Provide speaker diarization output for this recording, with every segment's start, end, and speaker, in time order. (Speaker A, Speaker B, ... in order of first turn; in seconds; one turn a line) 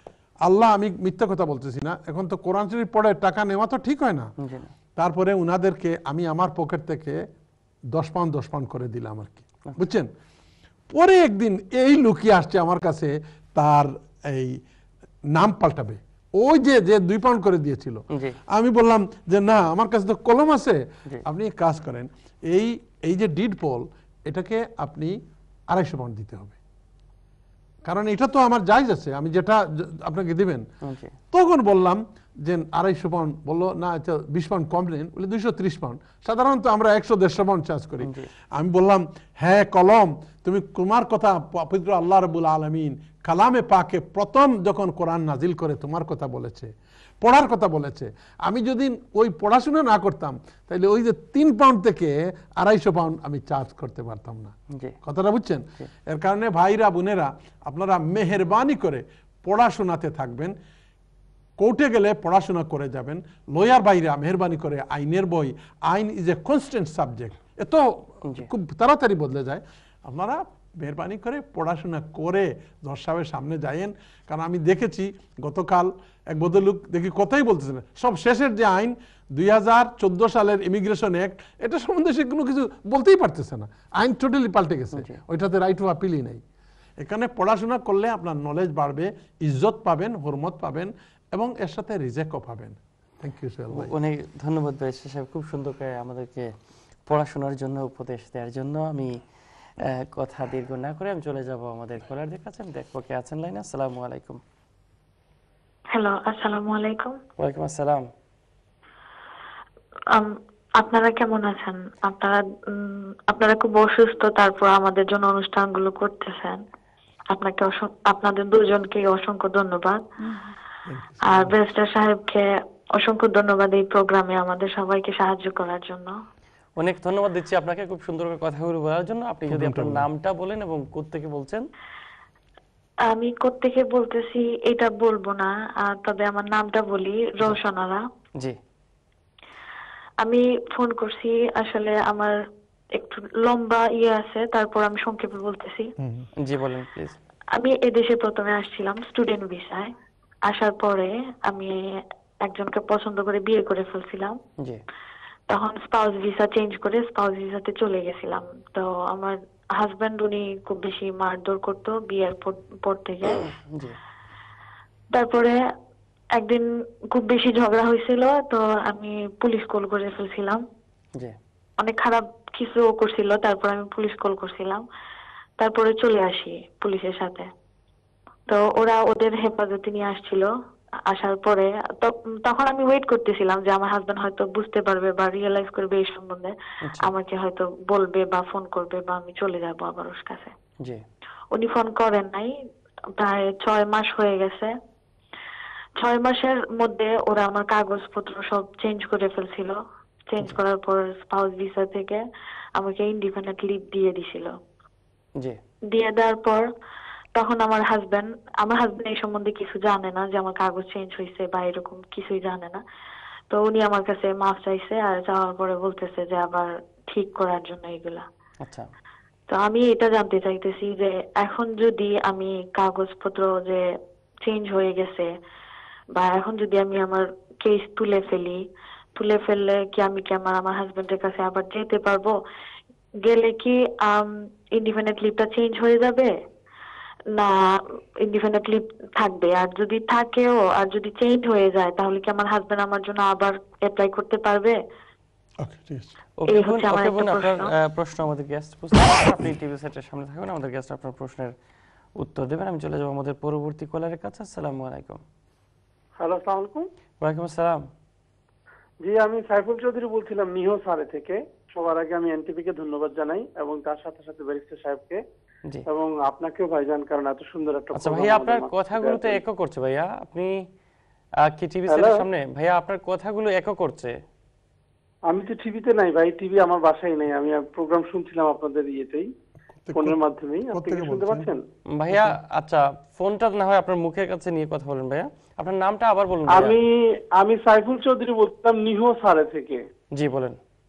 Speaker A: 0.4-4.3
Speaker B: 4.4-4.7
Speaker A: 5.0-7.2
Speaker A: 7.9-10.1
Speaker A: 10.9-14.6
Speaker A: 15.3-25.2
Speaker A: 25.7-26.6
Speaker A: 27.8-30.7
Speaker B: 30.8-31.1
Speaker A: 31.3-60.5
Speaker B: 38.0-38.3
Speaker A: 61.6-86.4
Speaker A: 87.0-93.9
Speaker B: 93.7-96.5
Speaker B: 97.1-99.1
Speaker B: 100.1-104.4
Speaker C: 105.9-107.2
Speaker B: 107.4-108.0
Speaker C: 110.1-116.6
Speaker C: 117.3-120.0
Speaker A: 120.9-121.6
Speaker C: 121.3-126.1
Speaker B: 126.8-131.7
Speaker A: 129.5-130.1
Speaker C: 133.1-138.0
Speaker C: 140.2-142.3
Speaker C: 142.9-145.9
Speaker A: 146.0-146.2
Speaker B: 146.4-147.2
Speaker C: 147.6-149.9
Speaker C: 150.5-151.8
Speaker C: 152.4-154.4
Speaker C: 155.5-163.5
Speaker B: 163.3-163.9
Speaker C: 165.1-165.6
Speaker C: 166.3-170.6
Speaker C: 171.8-174.8
Speaker C: 175.6-177.5
Speaker C: 178.5-180.5
Speaker C: 181.1-190.5
Speaker B: 186.8-187.1
Speaker C: 191.5-192.5
Speaker C: 193.2-194.7
Speaker C: 196.0-199.8
Speaker C: 200.3-202.2
Speaker C: 202.8-204.5
Speaker C: 205.9-206.6
Speaker C: 207.3-212.8
Speaker C: 213.5-218.2
Speaker B: 218.6-218.9
Speaker C: 219.5-223.8
Speaker C: 224.4-225.3
Speaker C: 226.2-228.6
Speaker C: 229.2-232.3
Speaker C: 233.2-236.3
Speaker C: 237.3-244.8
Speaker A: 245.6-246.1
Speaker B: 246.4-251.5
Speaker C: 246.5-247.7
Speaker B: 252.2-255.2
Speaker D: 256.2-256.9
Speaker B: 257.2-257.8
Speaker D: 259.0-265.2
Speaker D: 265.9-269.4
Speaker B: 267.9-270.6
Speaker B: 271.5-274.1
Speaker D: 271.9-272.2
Speaker D: 275.3-279.3
Speaker A: 279.8-280.2
Speaker D: 279.9-281.6
Speaker A: 280.7-281.5
Speaker B: 281.9-286.8
Speaker D: 286.5-289.8
Speaker B: 290.1-290.6